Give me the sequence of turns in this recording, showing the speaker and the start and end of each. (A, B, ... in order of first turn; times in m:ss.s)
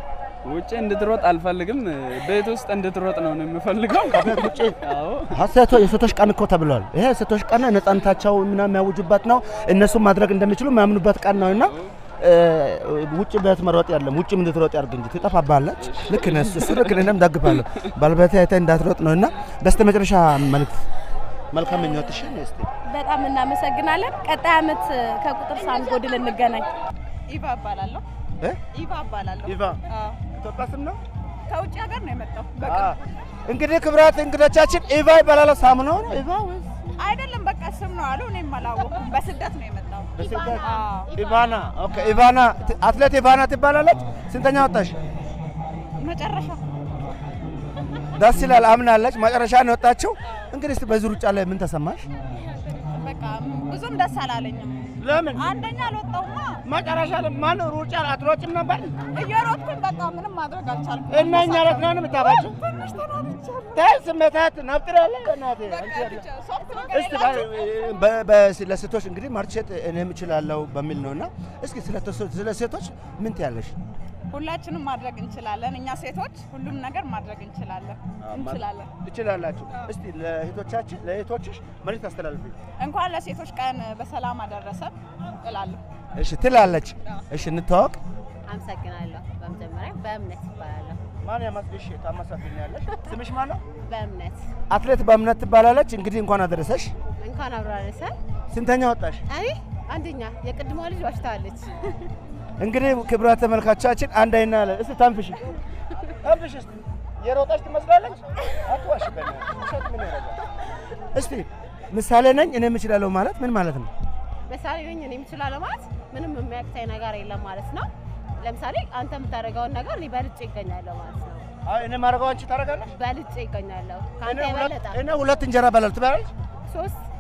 0:00.4-0:05.4 A
0:04.1-0:04.8 B
0:05.3-0:20.9 B
0:15.9-0:17.1 A
0:21.5-0:22.7 B
0:22.9-0:26.7 C
0:27.3-0:28.0 D
0:28.7-0:30.2 D
0:29.4-0:29.8 B
0:30.4-0:31.0 B
0:31.5-0:32.8 D
0:32.6-0:36.7 B
0:37.0-0:41.3 D
0:40.2-0:45.0 B
0:40.2-0:41.1 E
0:46.0-0:46.7 D
0:48.2-0:52.1 B
0:52.8-0:56.6 D
0:55.0-0:55.6 B
0:56.7-0:59.0 B
0:59.1-1:03.8 D
1:01.1-1:02.6 B
1:03.7-1:06.3 B
1:05.7-1:07.7 D
1:06.9-1:13.8 B
1:14.3-1:18.9 D
1:18.2-1:22.6 B
1:22.8-1:25.8 D
1:26.2-1:28.0 B
1:28.5-1:31.0 E
1:31.2-1:33.6 B
1:33.9-1:34.5 E
1:34.7-1:37.0 B
1:37.2-1:38.1 E
1:38.5-1:39.2 B
1:39.3-1:42.1 E
1:42.6-1:45.5 B
1:46.2-1:50.4 B
1:51.1-1:53.9 B
1:54.5-1:57.9 E
1:58.4-2:01.5 E
2:01.6-2:02.9 B
2:02.9-2:05.0 E
2:04.2-2:06.3 B
2:06.7-2:07.0 E